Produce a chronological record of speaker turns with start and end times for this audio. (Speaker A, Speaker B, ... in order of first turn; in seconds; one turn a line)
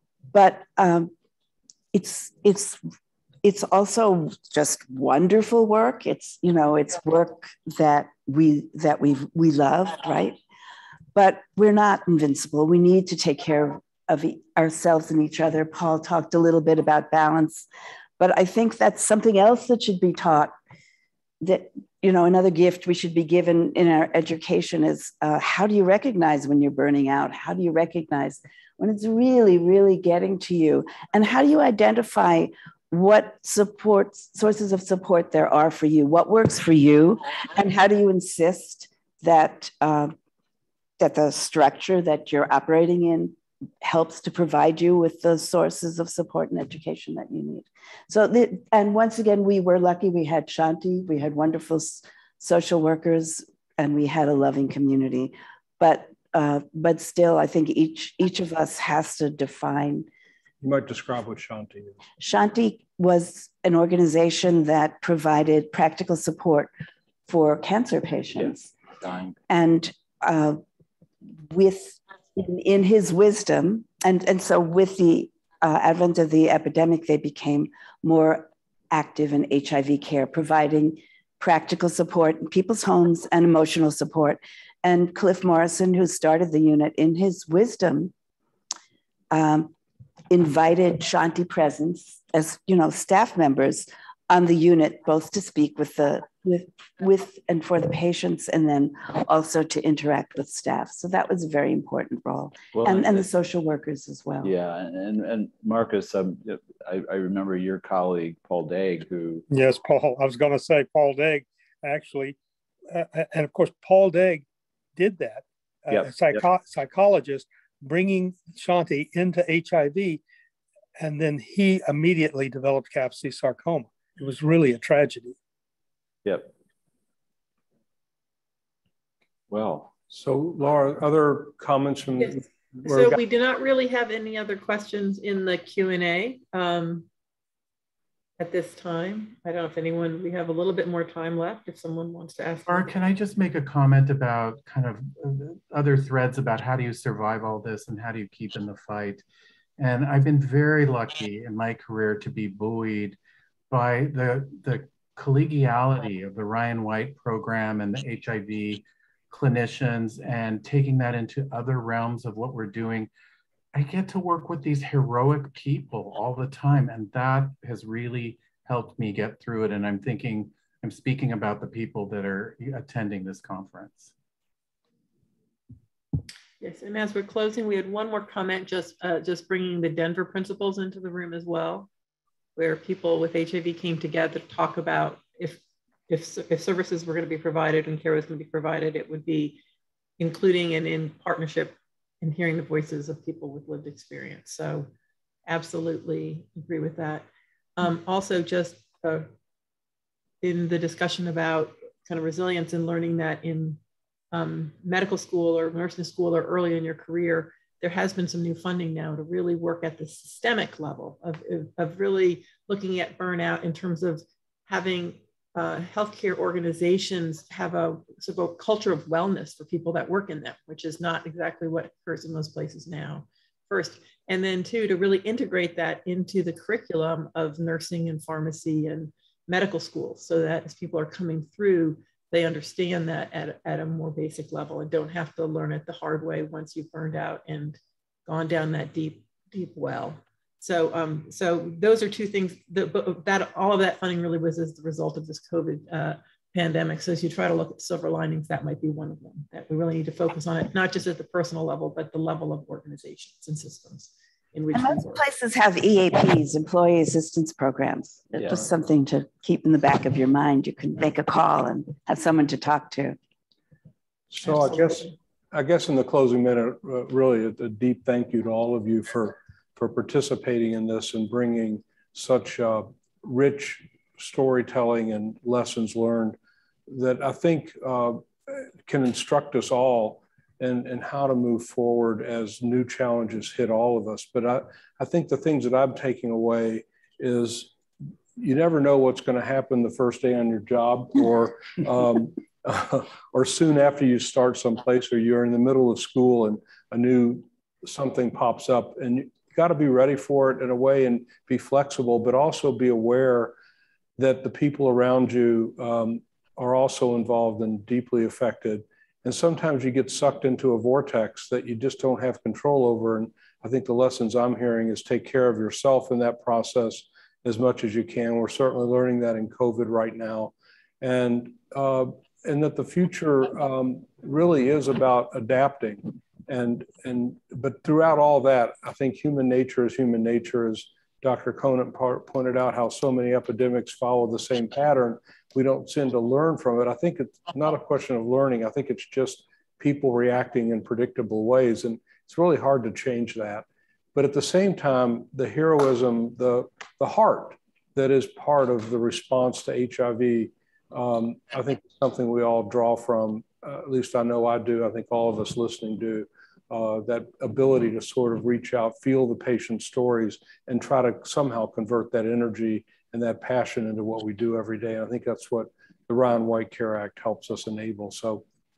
Speaker A: 0.3-1.1
Speaker A: 1.9-2.8
Speaker A: 3.4-10.4
Speaker A: 11.1-17.7
Speaker A: 18.2-20.5
Speaker A: 21.4-40.1
Speaker A: 41.0-60.1
Speaker B: 60.6-62.0
Speaker A: 62.2-66.7
Speaker A: 67.3-68.7
Speaker C: 69.0-69.3
Speaker A: 69.5-70.6
Speaker A: 71.4-88.1
Speaker A: 89.3-89.7
Speaker A: 90.3-104.5
Speaker C: 102.7-103.2
Speaker C: 104.4-109.4
Speaker D: 109.5-112.4
Speaker D: 112.9-114.4
Speaker D: 115.0-120.2
Speaker C: 115.9-116.4
Speaker D: 121.0-125.3
Speaker C: 126.2-126.5
Speaker B: 129.5-133.2
Speaker E: 132.2-137.1
Speaker E: 138.4-142.9
Speaker F: 142.7-149.2
Speaker F: 149.8-153.2
Speaker F: 153.7-163.1
Speaker F: 163.7-174.1
Speaker E: 176.6-181.9
Speaker E: 182.6-189.6
Speaker E: 190.2-194.9
Speaker E: 195.5-199.3
Speaker E: 200.4-203.8
Speaker E: 204.3-255.2
Speaker A: 254.7-263.2
Speaker B: 264.3-276.4
Speaker E: 264.4-265.1
Speaker B: 276.9-287.7
Speaker B: 288.4-303.5
Speaker B: 304.2-368.4